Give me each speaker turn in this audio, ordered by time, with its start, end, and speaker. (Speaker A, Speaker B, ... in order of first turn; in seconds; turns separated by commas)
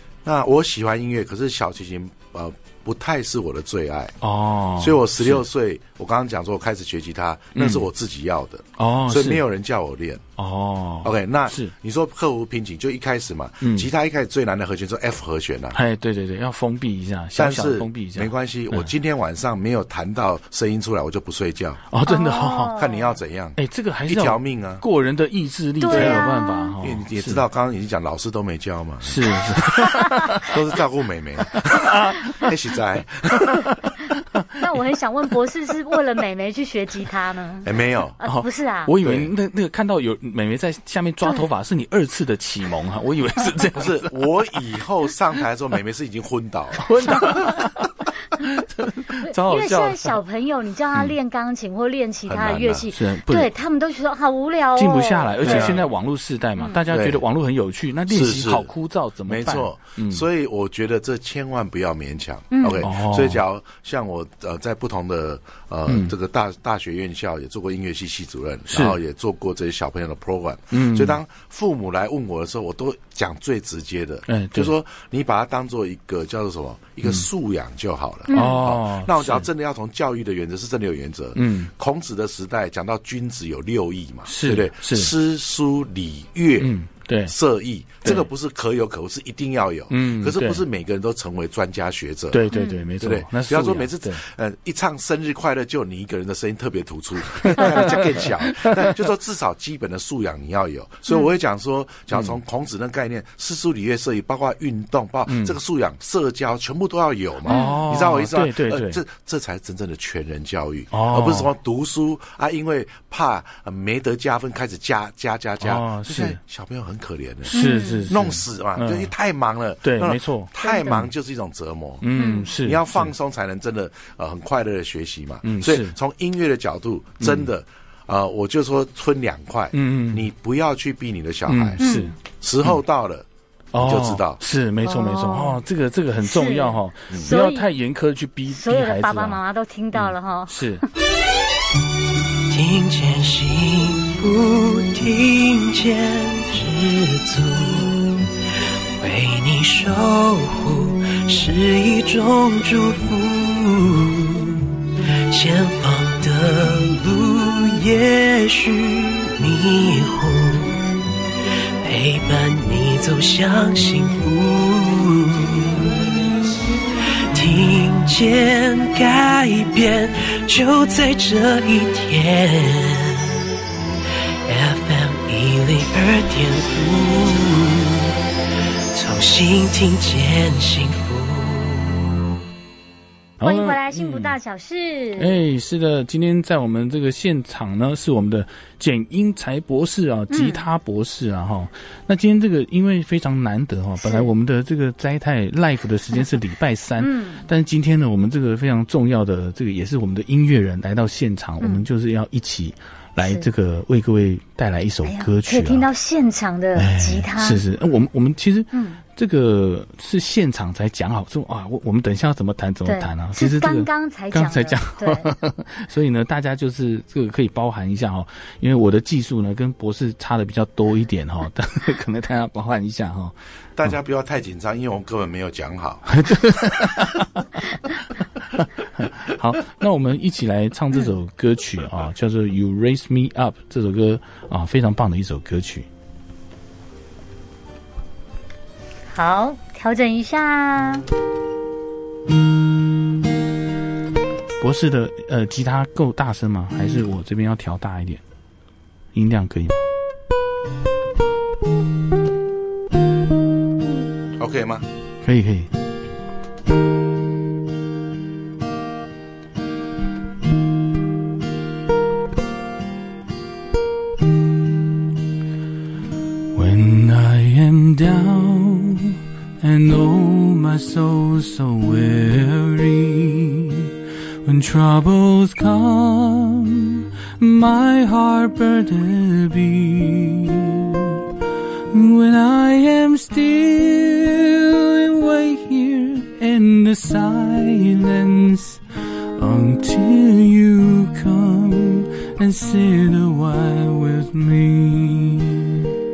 Speaker A: 0.2-4.2, Speaker B: 4.2-5.4, Speaker A: 4.8-10.2, Speaker B: 7.5-7.9, Speaker B: 8.8-9.4, Speaker B: 10.4-11.7, Speaker A: 11.0-15.8, Speaker B: 13.6-13.9, Speaker B: 15.7-18.9, Speaker A: 17.4-21.8, Speaker B: 21.9-22.8, Speaker C: 22.1-23.1, Speaker A: 22.7-24.8, Speaker B: 23.6-27.4, Speaker C: 25.8-26.7, Speaker A: 25.9-26.2, Speaker A: 26.8-33.7, Speaker B: 29.0-30.6, Speaker B: 31.6-32.5, Speaker B: 33.5-34.5, Speaker C: 34.6-38.9, Speaker A: 37.6-38.2, Speaker B: 38.2-44.2, Speaker A: 39.0-39.3, Speaker A: 43.8-47.5, Speaker B: 46.8-50.2, Speaker C: 49.2-55.8, Speaker A: 52.3-52.9, Speaker B: 52.9-53.5, Speaker B: 54.8-60.2, Speaker A: 55.4-55.8, Speaker A: 56.9-57.2, Speaker A: 58.1-58.7, Speaker A: 59.3-86.7, Speaker C: 62.5-62.9, Speaker B: 62.8-63.4, Speaker B: 65.9-66.1, Speaker B: 68.7-69.0, Speaker B: 70.7-71.2, Speaker B: 74.3-74.7, Speaker C: 78.3-78.6, Speaker B: 78.3-79.5, Speaker B: 81.3-81.7, Speaker B: 84.3-85.1, Speaker B: 86.6-87.3, Speaker A: 87.3-92.5, Speaker B: 89.9-90.6, Speaker B: 92.3-94.2, Speaker C: 92.5-92.8, Speaker A: 93.0-131.8, Speaker B: 97.4-98.9, Speaker B: 105.3-105.6, Speaker B: 107.5-109.0, Speaker C: 107.5-107.8, Speaker B: 110.9-111.5, Speaker B: 115.6-116.4, Speaker B: 117.5-119.1, Speaker C: 117.5-118.1, Speaker B: 119.8-121.0, Speaker C: 120.6-121.0, Speaker B: 122.0-123.1, Speaker C: 122.2-122.5, Speaker B: 125.4-126.0, Speaker B: 127.2-127.5, Speaker B: 129.7-130.3, Speaker B: 131.5-132.8, Speaker C: 131.8-132.1, Speaker A: 132.4-134.4, Speaker B: 133.7-139.4, Speaker C: 134.8-135.6, Speaker C: 136.2-137.7, Speaker C: 138.5-140.8, Speaker B: 139.9-140.8, Speaker D: 142.5-148.3, Speaker D: 149.0-160.8, Speaker D: 161.8-166.2, Speaker D: 167.3-173.4, Speaker D: 174.5-178.1, Speaker D: 178.9-182.2, Speaker B: 183.4-184.3, Speaker C: 183.4-185.4, Speaker B: 185.2-205.9, Speaker C: 190.3-190.6, Speaker C: 194.0-194.3, Speaker C: 197.0-197.4, Speaker C: 203.2-203.5, Speaker C: 205.1-207.6, Speaker B: 206.8-223.3, Speaker C: 208.7-209.0, Speaker C: 212.9-215.3, Speaker A: 223.8-226.1, Speaker B: 226.1-227.9, Speaker B: 228.5-235.9, Speaker C: 239.1-241.1, Speaker B: 244.6-248.2, Speaker B: 249.1-249.8, Speaker A: 254.4-254.8, Speaker B: 255.2-255.7, Speaker B: 266.5-273.9, Speaker B: 274.4-281.2, Speaker B: 281.9-288.8, Speaker B: 289.4-295.9